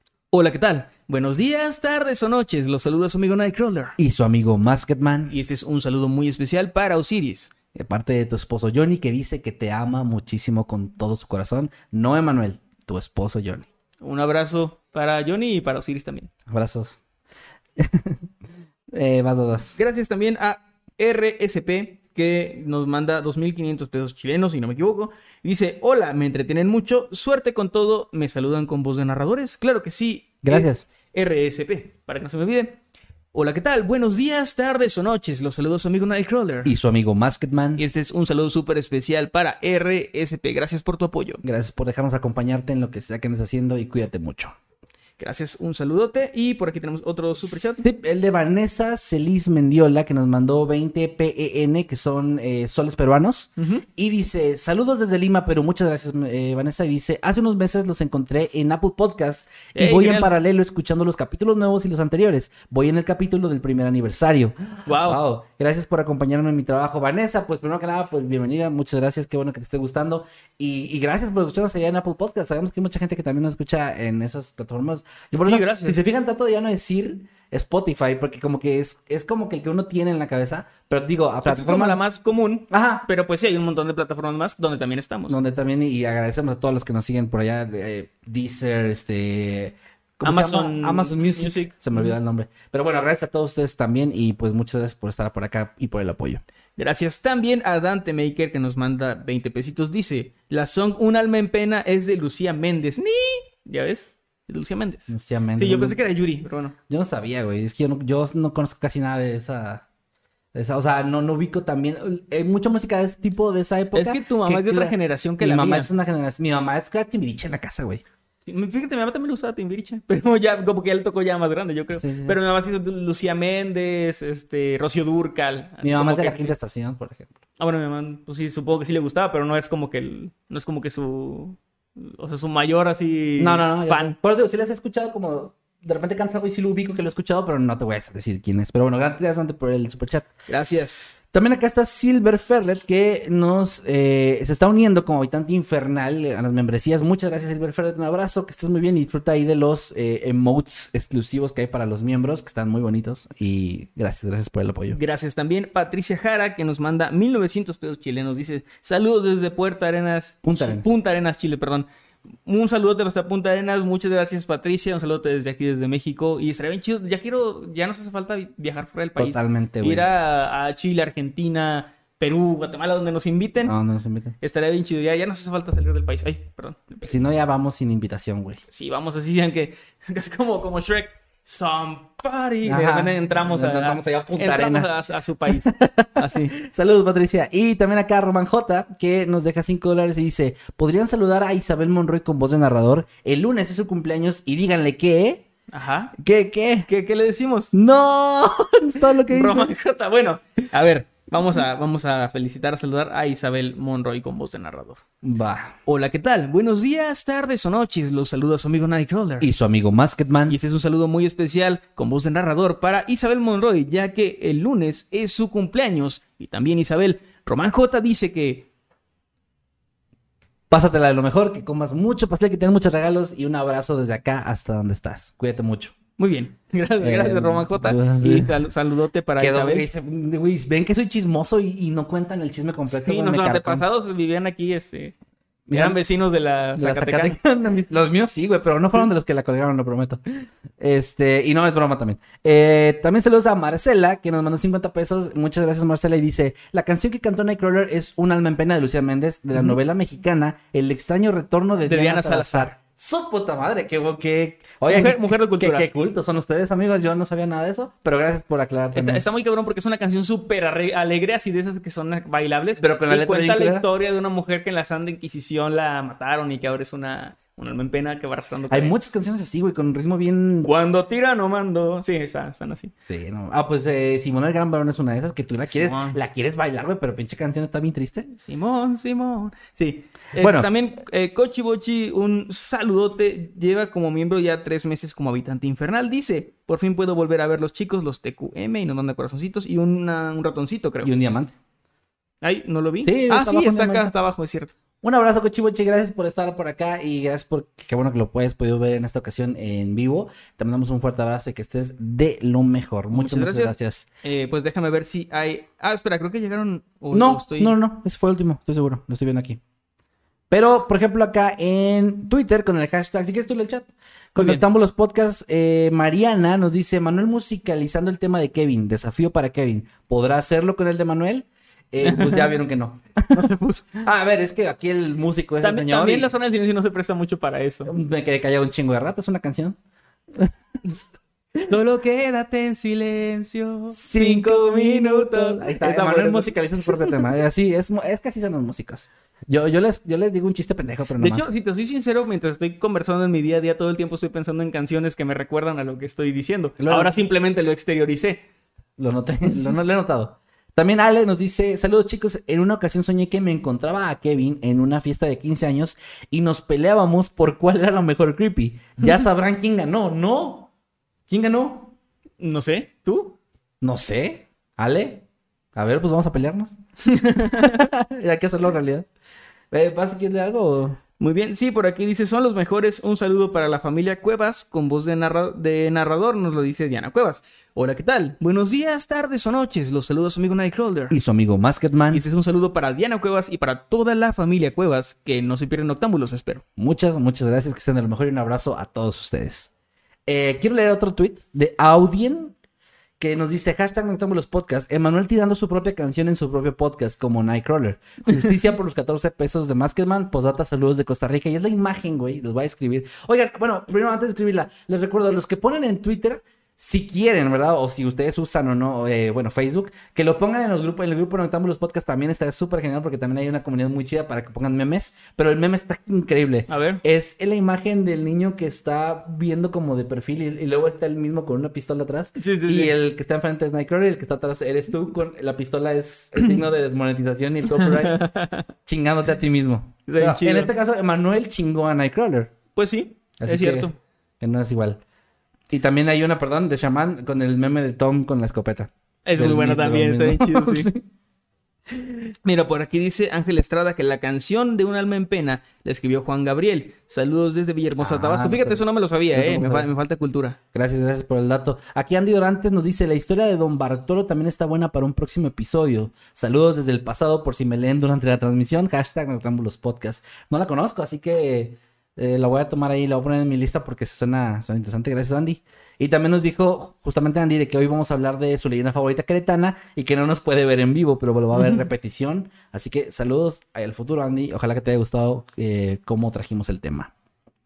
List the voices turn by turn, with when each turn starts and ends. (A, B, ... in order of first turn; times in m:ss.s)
0:00.3-0:04.0 A
0:04.0-0:05.3 B
0:05.3-0:07.5 A
0:07.7-0:13.7 B
0:14.0-0:16.3 A
0:16.5-0:17.0 B
0:17.8-0:18.2 B
0:18.9-0:19.8 B
0:19.8-0:32.8 A
0:30.4-0:30.8 B
0:33.3-0:36.7 A
0:36.6-0:37.8 B
0:37.8-0:41.4 A
0:41.4-0:44.6 B
0:45.2-0:47.8 A
0:47.4-1:22.0 B
0:53.6-0:53.8 A
0:59.8-1:00.3 A
1:04.9-1:05.2 A
1:15.3-1:16.0 A
1:21.4-1:25.4 A
1:22.7-1:23.1 B
1:25.3-1:36.4 B
1:30.2-1:32.2 A
1:36.8-1:46.8 A
1:45.1-1:46.0 B
1:46.9-1:49.8 B
1:50.5-1:58.0 B
1:53.9-1:55.9 A
1:58.5-2:06.6 A
2:01.9-2:02.4 B
2:05.8-2:07.3 B
2:07.6-2:14.2 A
2:13.4-2:20.3 B
2:20.5-2:21.1 A
2:21.3-2:35.0 B
2:34.9-2:41.9 A
2:40.4-2:40.9 B
2:42.4-2:53.8 A
2:49.2-2:50.1 B
2:53.6-2:54.4 B
2:54.4-2:57.1 A
2:57.0-2:58.6 B
2:58.7-3:06.5 A
3:02.6-3:04.9 B
3:05.5-3:15.4 B
3:15.7-3:16.1 A
3:16.2-3:16.9 B
3:16.9-3:17.7 A
3:17.7-3:19.7 B
3:19.3-3:25.0 A
3:25.2-3:25.8 B
3:25.9-3:29.5 A
3:29.4-3:30.6 B
3:30.5-3:38.7 A
3:40.7-3:46.0 B
3:46.2-3:49.9 A
3:47.0-3:48.6 B
3:49.4-3:53.8 B
3:52.9-3:55.1 A
3:55.7-3:56.0 B
3:55.7-3:57.4 A
3:56.8-4:00.2 B
4:00.8-4:19.2 B
4:11.8-4:12.7 A
4:14.9-4:15.9 A
4:18.9-4:29.0 A
4:22.8-4:23.8 B
4:28.7-4:30.7 B
4:30.6-4:32.9 A
4:33.0-4:38.3 B
4:35.7-4:36.2 A
4:38.3-4:51.1 A
4:40.4-4:40.7 B
4:51.0-4:51.5 B
4:52.4-4:54.7 A
4:53.0-4:54.1 B
4:55.0-5:04.1 B
5:03.1-5:07.8 A
5:07.1-5:09.6 B
5:10.5-5:26.3 B
5:14.4-5:14.6 A
5:22.0-5:22.5 A
5:23.3-5:24.0 A
5:25.6-5:27.9 A
5:27.9-5:29.8 B
5:31.6-5:37.2 A
5:33.9-5:41.5 B
5:41.2-5:48.4 A
5:46.8-5:47.1 B
5:49.0-6:00.7 B
6:01.3-6:01.9 B
6:02.4-6:03.4 A
6:03.8-6:06.8 B
6:07.2-6:07.8 A
6:07.4-6:09.1 B
6:09.7-6:11.0 B
6:11.2-6:21.2 A
6:21.1-6:22.2 B
6:22.1-6:26.6 A
6:26.8-6:29.7 B
6:30.3-6:32.5 B
6:33.2-7:08.3 B
6:56.7-6:57.0 A
7:02.4-7:02.9 A
7:07.8-7:08.7 A
7:08.8-7:12.5 B
7:10.1-7:10.7 A
7:12.8-7:14.0 A
7:13.4-7:15.0 B
7:15.7-7:21.0 B
7:19.2-7:20.9 A
7:22.4-7:30.6 A
7:28.0-7:29.9 B
7:30.7-7:57.1 B